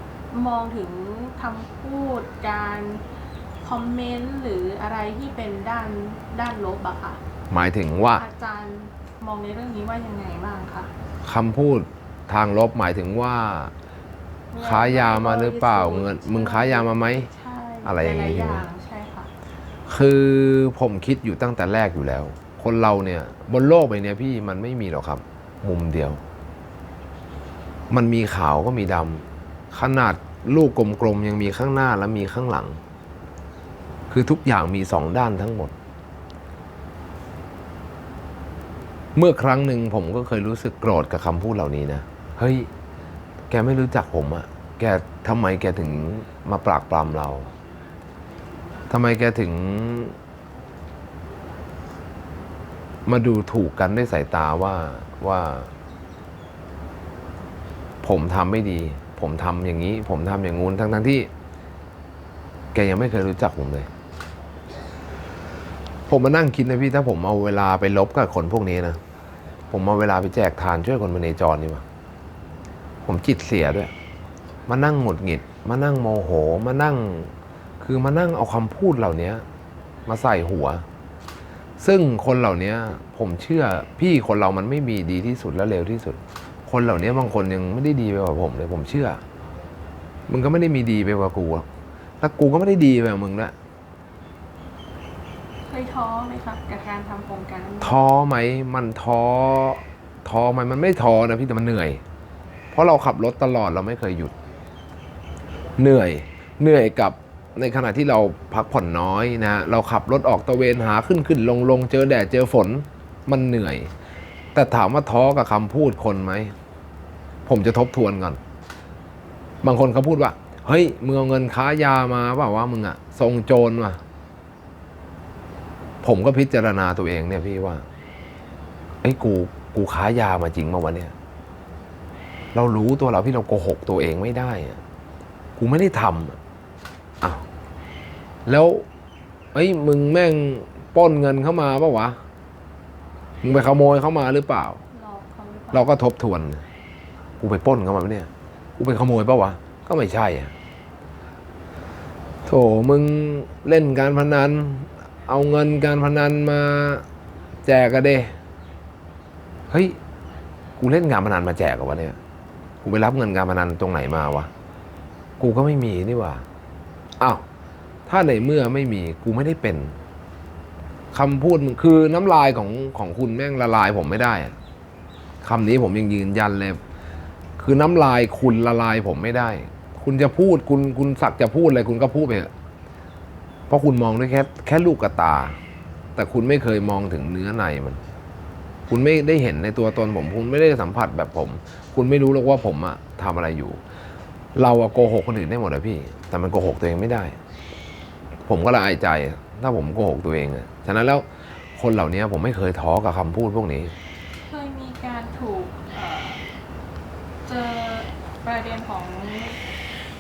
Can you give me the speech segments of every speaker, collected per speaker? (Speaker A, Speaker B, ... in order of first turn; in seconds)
Speaker A: 0.3-3.0, 3.6-7.2, 8.1-10.9, 14.5-19.3, 95.7-98.1, 144.9-145.9, 204.5-206.5, 207.4-209.6
Speaker B: 7.5-8.2, 11.2-13.7, 14.6-17.3, 17.8-18.6, 19.9-26.2, 27.9-32.8, 34.1-35.7, 39.1-42.7, 43.5-47.5, 48.9-50.2, 53.1-55.7, 58.0-61.3, 62.7-63.9, 66.1-69.0, 69.7-71.8, 73.0-73.9, 74.7-79.5, 80.1-80.8, 81.8-89.2, 90.3-91.7, 92.2-93.5, 97.8-102.0, 102.7-104.3, 105.8-113.9, 114.5-116.5, 117.5-118.4, 119.6-124.0, 126.0-127.8, 129.0-131.1, 132.5-134.8, 135.6-136.4, 138.5-138.8, 139.5-142.2, 143.4-144.8, 145.7-146.6, 147.4-150.5, 152.5-157.0, 157.7-158.3, 159.7-160.0, 160.8-162.2, 162.8-164.5, 165.4-166.4, 168.1-170.0, 171.1-174.6, 175.4-176.8, 177.6-182.5, 183.7-185.6, 186.2-188.0, 188.9-193.8, 194.6-197.4, 198.5-201.2, 201.8-203.9